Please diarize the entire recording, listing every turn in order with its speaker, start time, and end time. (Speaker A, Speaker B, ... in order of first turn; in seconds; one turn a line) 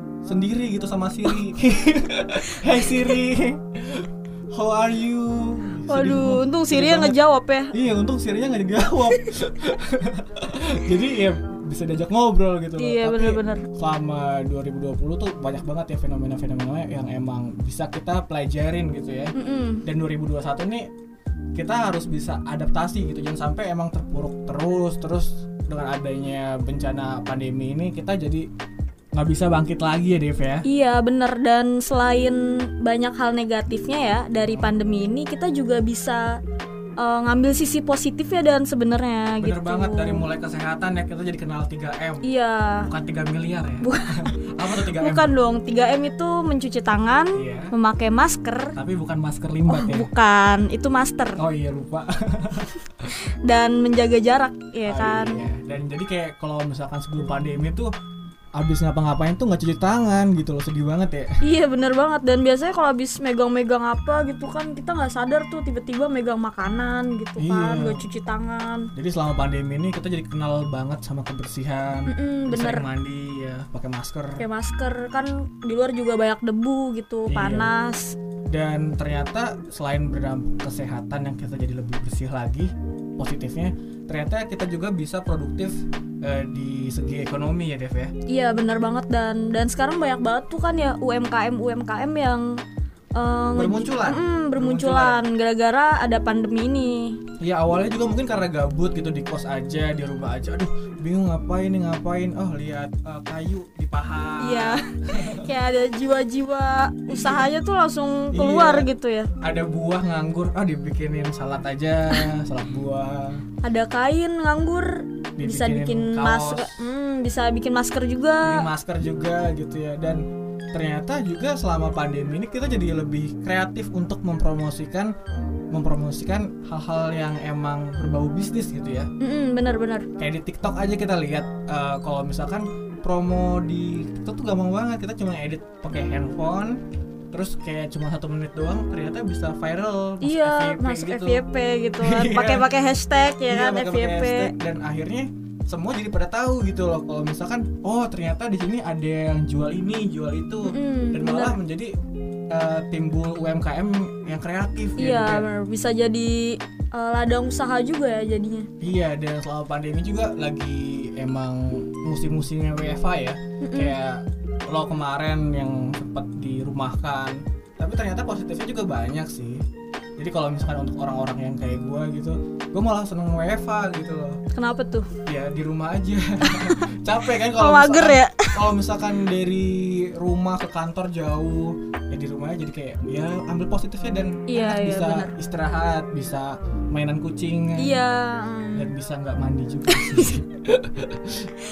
Speaker A: 0.2-7.2
Speaker B: 2.5-3.0
Speaker B: 5.9-7.7
Speaker A: 7.7-19.3
Speaker B: 12.8-13.7
Speaker B: 19.3-19.9
Speaker A: 19.9-20.9
Speaker A: 21.6-28.5
Speaker A: 29.1-30.6
Speaker B: 30.6-36.4
Speaker A: 34.4-34.8
Speaker B: 37.0-40.2
Speaker A: 39.4-42.3
Speaker B: 42.2-42.9
Speaker A: 42.8-45.4
Speaker B: 43.8-48.8
Speaker A: 47.4-47.7
Speaker A: 48.8-50.1
Speaker B: 49.7-51.4
Speaker A: 51.4-53.1
Speaker B: 53.5-55.4
Speaker A: 54.9-57.9
Speaker A: 58.6-61.3
Speaker B: 61.4-68.9
Speaker A: 67.4-68.0
Speaker A: 69.0-74.4
Speaker B: 72.1-72.8
Speaker B: 74.4-78.2
Speaker A: 77.3-77.7
Speaker A: 78.5-88.1
Speaker B: 88.3-92.5
Speaker B: 93.2-97.2
Speaker A: 93.5-95.2
Speaker A: 97.4-105.5
Speaker B: 104.4-109.3
Speaker A: 107.1-107.4
Speaker A: 108.3-108.9
Speaker A: 109.4-113.4
Speaker B: 113.6-118.7
Speaker A: 115.4-116.9
Speaker A: 118.4-120.2
Speaker A: 120.7-125.1
Speaker A: 125.7-129.1
Speaker B: 129.2-130.1
Speaker A: 130.2-136.8
Speaker A: 137.3-141.4
Speaker B: 140.2-144.5
Speaker A: 142.0-142.7
Speaker A: 143.5-151.9
Speaker B: 150.7-151.6
Speaker A: 152.5-155.5
Speaker B: 155.0-158.7
Speaker A: 158.8-169.6
Speaker B: 163.6-163.9
Speaker A: 170.2-174.4
Speaker B: 174.5-175.1
Speaker A: 175.3-188.0
Speaker B: 176.5-176.8
Speaker B: 177.5-178.7
Speaker B: 184.5-185.3
Speaker B: 187.8-188.9
Speaker A: 188.8-191.5
Speaker B: 189.9-190.4